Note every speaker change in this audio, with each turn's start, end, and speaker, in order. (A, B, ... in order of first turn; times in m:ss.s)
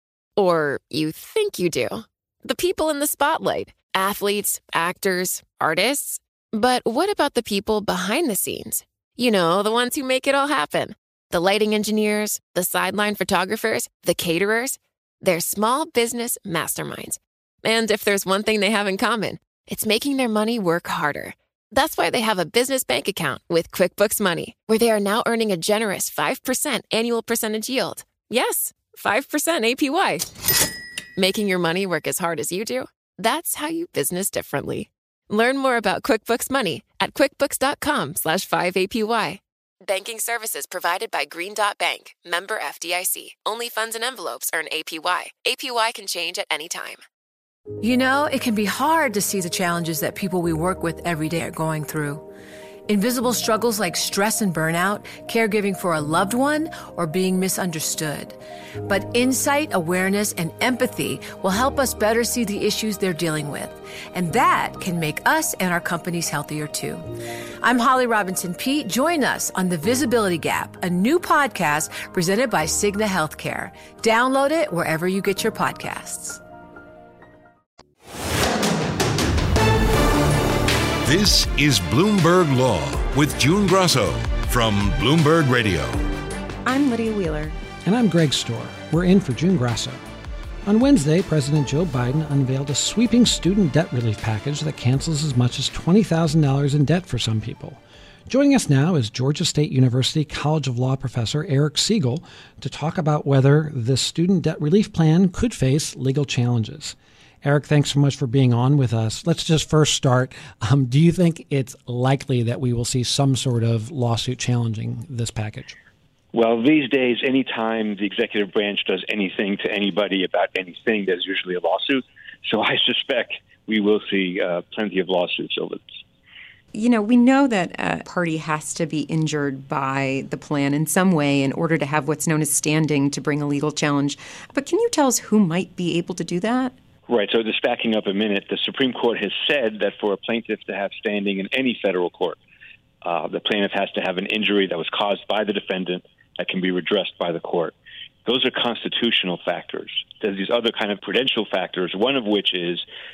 0:00.4-0:30.3 A
0:31.2-0:47.0 A
0:47.8-0:52.3 B
0:52.9-1:07.1 B
1:07.6-1:16.4 B
1:21.0-1:26.0 C
1:26.6-1:27.6 D
1:27.8-1:30.0 E
1:30.6-1:55.7 E
1:56.3-2:06.0 F
2:06.7-2:16.7 D
2:17.1-2:22.4 F
2:23.0-2:27.7 F
2:28.2-2:32.8 F